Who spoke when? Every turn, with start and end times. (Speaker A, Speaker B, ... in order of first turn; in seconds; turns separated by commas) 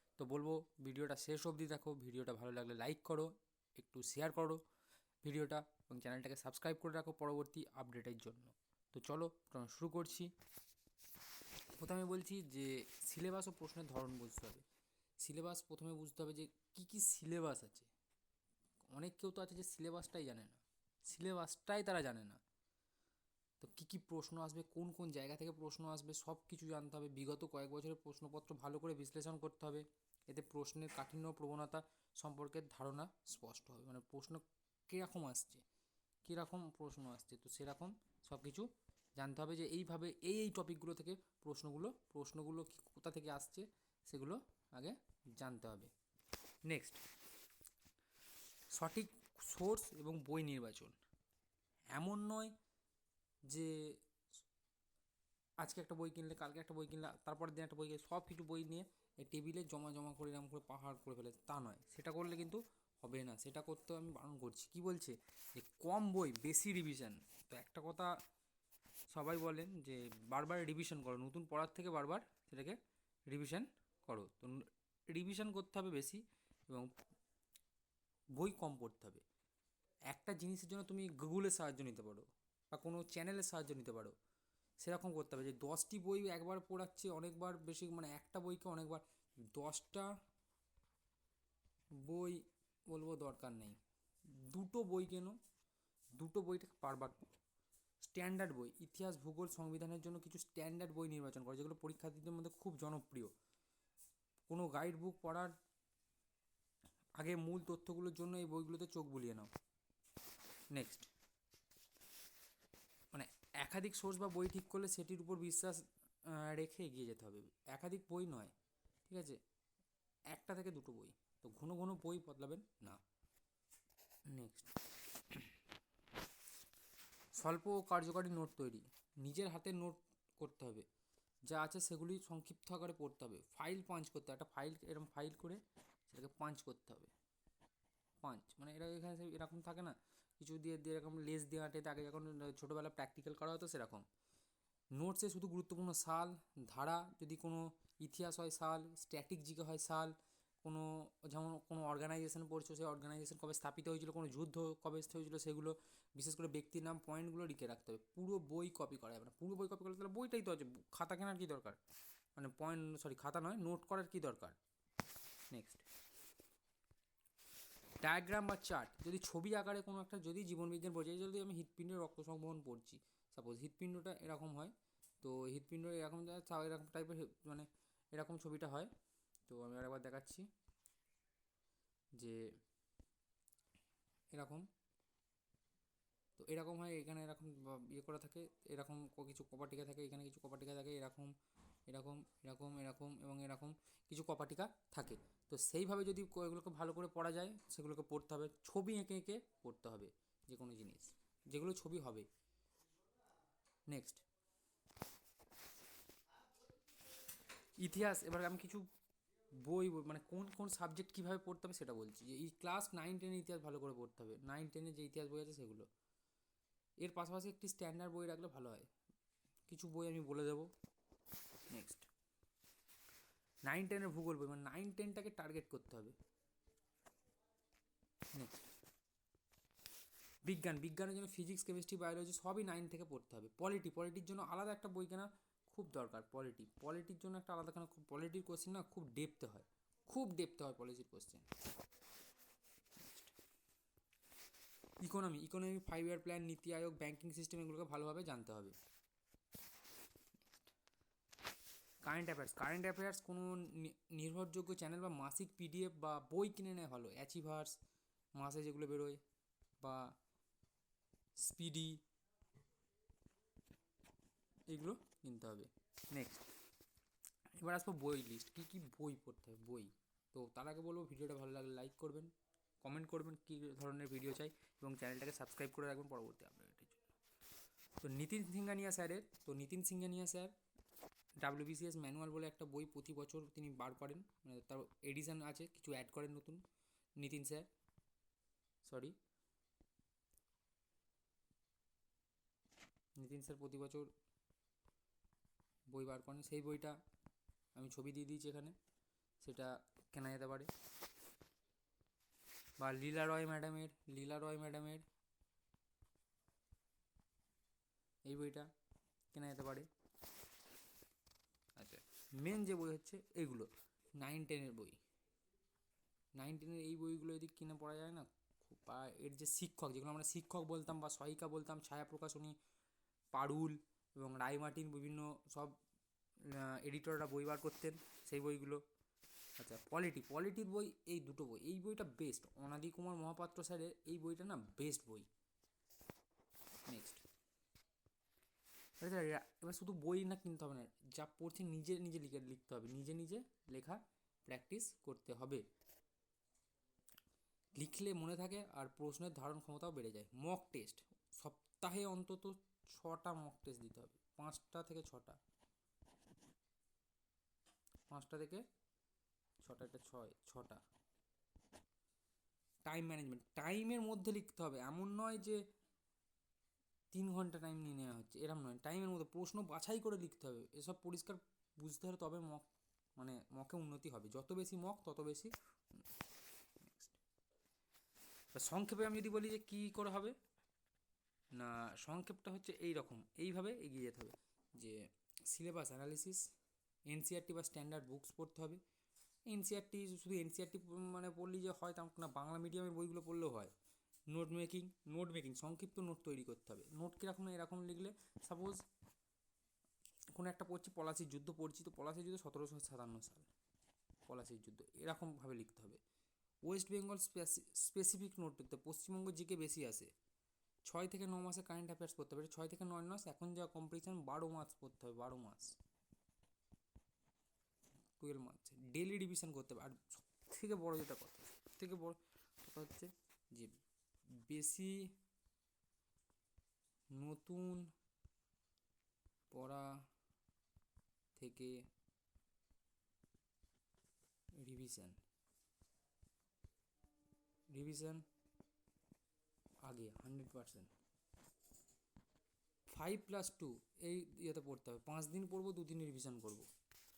Speaker A: 0.2-4.6, Speaker A: 5.2-10.3, Speaker A: 11.8-14.7, Speaker A: 15.2-17.9, Speaker A: 18.9-22.4, Speaker A: 23.6-35.6, Speaker A: 36.2-45.9, Speaker A: 46.6-47.0, Speaker A: 48.7-51.0, Speaker A: 52.0-52.5, Speaker A: 53.5-54.0, Speaker A: 55.6-68.1, Speaker A: 69.1-72.8, Speaker A: 73.3-76.9, Speaker A: 78.4-79.2, Speaker A: 80.1-84.1, Speaker A: 84.8-90.1, Speaker A: 92.0-93.8, Speaker A: 94.4-95.4, Speaker A: 96.2-97.3, Speaker A: 98.0-103.3, Speaker A: 104.5-105.5, Speaker A: 107.2-109.5, Speaker A: 110.7-111.1, Speaker A: 113.1-118.5, Speaker A: 119.1-119.4, Speaker A: 120.3-123.0, Speaker A: 124.3-124.7, Speaker A: 127.4-130.8, Speaker A: 131.5-137.1, Speaker A: 138.2-144.1, Speaker A: 145.0-161.8, Speaker A: 162.4-164.6, Speaker A: 165.5-165.8, Speaker A: 168.0-178.9, Speaker A: 179.5-180.5, Speaker A: 182.2-182.5, Speaker A: 184.3-184.7, Speaker A: 186.4-191.3, Speaker A: 191.9-202.3, Speaker A: 203.9-204.2, Speaker A: 207.8-208.9, Speaker A: 209.6-215.9, Speaker A: 217.0-218.9, Speaker A: 219.7-220.7, Speaker A: 221.7-222.1, Speaker A: 223.7-226.2, Speaker A: 228.3-228.6, Speaker A: 230.4-241.5, Speaker A: 243.0-243.3, Speaker A: 245.0-248.8, Speaker A: 252.0-257.8, Speaker A: 258.4-259.2, Speaker A: 259.8-260.1, Speaker A: 261.4-262.0, Speaker A: 264.7-266.5, Speaker A: 267.6-272.3, Speaker A: 272.8-277.0, Speaker A: 278.0-280.5, Speaker A: 281.4-286.6, Speaker A: 287.2-287.7, Speaker A: 288.8-289.2, Speaker A: 293.2-294.1, Speaker A: 295.9-297.0, Speaker A: 297.8-298.8, Speaker A: 299.4-300.7, Speaker A: 302.8-305.1, Speaker A: 308.3-308.7, Speaker A: 309.3-309.9, Speaker A: 311.8-315.0, Speaker A: 316.4-322.6, Speaker A: 323.3-325.8, Speaker A: 326.4-328.8, Speaker A: 329.6-335.3, Speaker A: 336.9-337.2, Speaker A: 339.0-345.6, Speaker A: 347.8-355.4, Speaker A: 358.1-358.6, Speaker A: 359.6-360.8, Speaker A: 362.9-365.6, Speaker A: 367.1-376.0, Speaker A: 376.8-377.2, Speaker A: 378.5-380.4, Speaker A: 381.5-386.5, Speaker A: 387.1-388.8, Speaker A: 389.5-393.7, Speaker A: 394.3-398.8, Speaker A: 400.3-403.5, Speaker A: 404.3-406.0, Speaker A: 406.6-410.1, Speaker A: 410.9-415.8, Speaker A: 418.2-423.8, Speaker A: 424.4-425.1, Speaker A: 427.1-427.9, Speaker A: 429.5-429.9, Speaker A: 431.4-431.8, Speaker A: 434.6-435.2, Speaker A: 437.7-438.2, Speaker A: 439.9-440.9, Speaker A: 442.9-446.7